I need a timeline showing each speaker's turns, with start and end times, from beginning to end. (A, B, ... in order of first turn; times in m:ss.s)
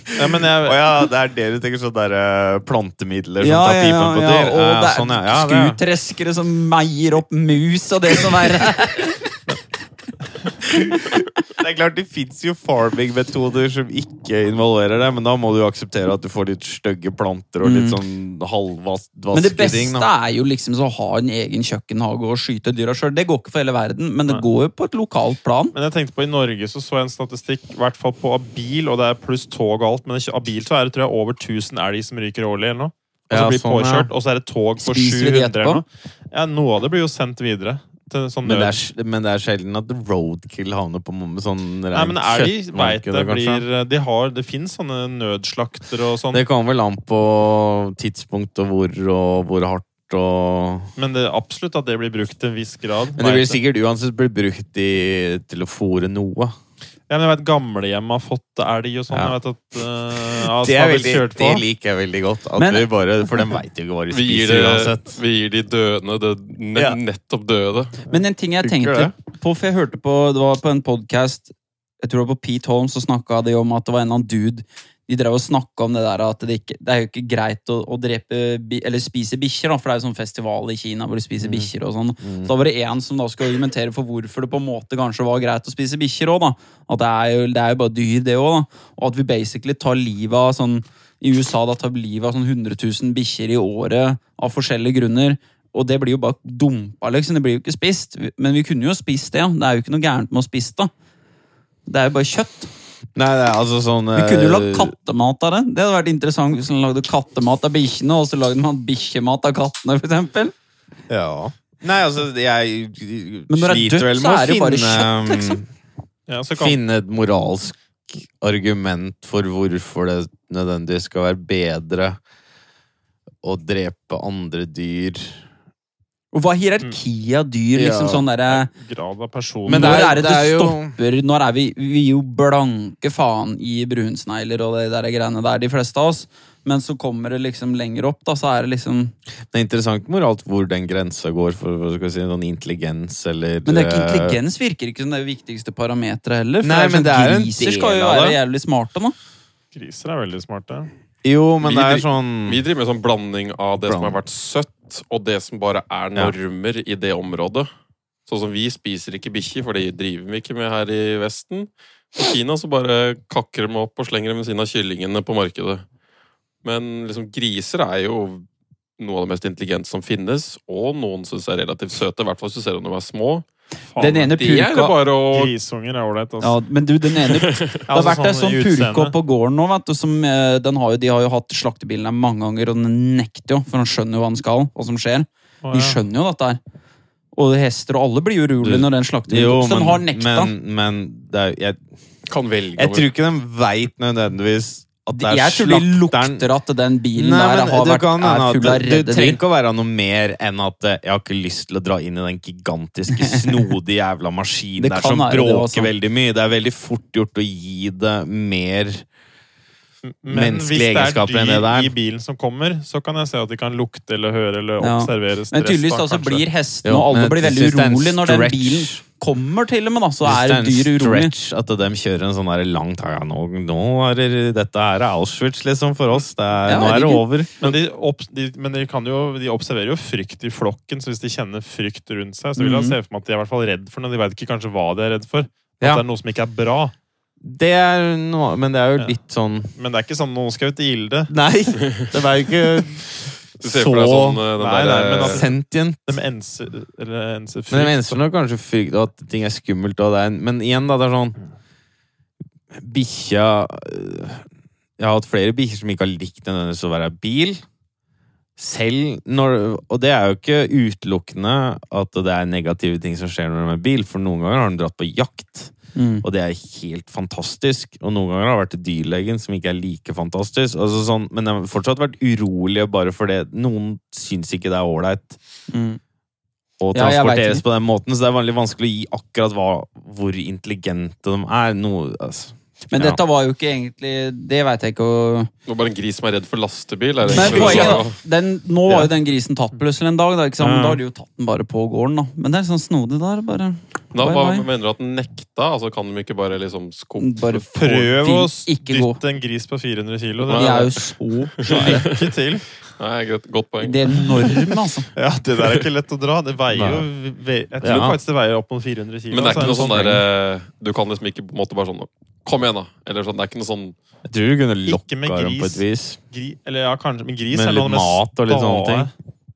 0:00.2-0:00.8 A
0:00.6-0:05.8 B
0:03.4-0:09.4 C
0:10.8-0:11.2 C
0:11.5-0:20.1 B
0:17.6-0:18.0 C
0:19.3-0:25.8 C
0:25.7-0:38.8 A
0:33.3-0:34.1 B
0:34.8-0:35.8 C
0:38.4-0:43.6 B
0:41.9-0:46.4 A
0:46.3-0:50.9 B
0:51.0-0:53.6 A
0:53.2-0:56.5 B
0:57.1-1:01.6 A
0:59.1-0:59.4 B
1:00.4-1:05.2 B
1:02.6-1:02.9 C
1:04.1-1:08.0 D
1:08.1-1:40.9 C
1:08.6-1:09.1 B
1:21.4-1:21.7 B
1:22.2-1:22.5 B
1:41.9-1:42.7 C
1:43.2-1:44.9 B
1:44.1-1:50.5 C
1:51.1-1:55.7 B
1:53.5-1:55.6 C
1:56.3-1:56.8 A
1:56.6-2:02.2 B
2:03.4-2:05.4 B
2:06.3-2:08.7 C
2:07.8-2:08.2 B
2:08.5-2:10.2 A
2:09.7-2:11.0 B
2:09.7-2:19.1 C
2:19.5-2:24.4 B
2:23.6-2:29.2 C
2:26.6-2:28.4 B
2:29.7-2:30.9 A
2:31.2-2:32.6 B
2:31.6-2:37.7 D
2:33.8-2:34.2 B
2:38.3-2:45.8 D
2:46.6-2:48.5 D
2:49.0-2:53.5 D
2:53.9-2:54.3 A
2:54.0-2:55.0 C
2:54.4-2:55.5 D
2:55.3-2:56.6 A
2:56.4-3:06.6 C
2:57.3-2:57.8 D
2:57.9-2:59.1 A
3:05.6-3:06.0 A
3:07.4-3:10.5 C
3:08.6-3:11.8 B
3:12.3-3:13.1 D
3:12.8-3:16.4 B
3:15.1-3:19.4 C
3:17.2-3:29.0 B
3:23.1-3:23.5 C
3:24.8-3:25.9 C
3:30.0-3:36.4 A
3:30.3-3:31.9 B
3:34.8-3:41.3 C
3:36.8-3:39.0 B
3:40.2-3:47.5 B
3:46.7-3:47.2 C
3:47.6-3:56.9 A
3:52.6-3:53.0 C
3:57.4-3:59.7 B
3:59.8-4:01.3 A
4:01.3-4:03.1 B
4:03.6-4:04.4 B
4:03.6-4:05.5 D
4:04.6-4:05.5 A
4:05.2-4:06.2 B
4:06.1-4:08.2 A
4:07.7-4:11.4 B
4:12.7-4:14.4 B
4:15.0-4:17.6 B
4:18.6-4:35.4 B
4:26.0-4:26.2 C
4:35.7-4:36.0 C
4:36.8-4:43.2 B
4:36.9-4:37.6 C
4:42.9-4:45.5 C
4:45.7-4:48.2 D
4:47.3-4:48.1 B
4:47.3-4:54.7 C
4:50.6-4:51.0 B
4:54.1-4:57.6 D
4:57.2-4:59.2 C
4:57.8-5:00.8 A
5:00.4-5:02.3 D
5:00.5-5:02.0 C
5:01.7-5:02.7 A
5:03.0-5:04.5 D
5:03.8-5:05.1 C
5:05.2-5:10.2 A
5:06.7-5:07.1 B
5:07.8-5:08.2 B
5:09.3-5:14.0 D
5:09.7-5:10.2 B
5:14.3-5:16.2 B
5:14.9-5:19.1 A
5:17.5-5:19.1 B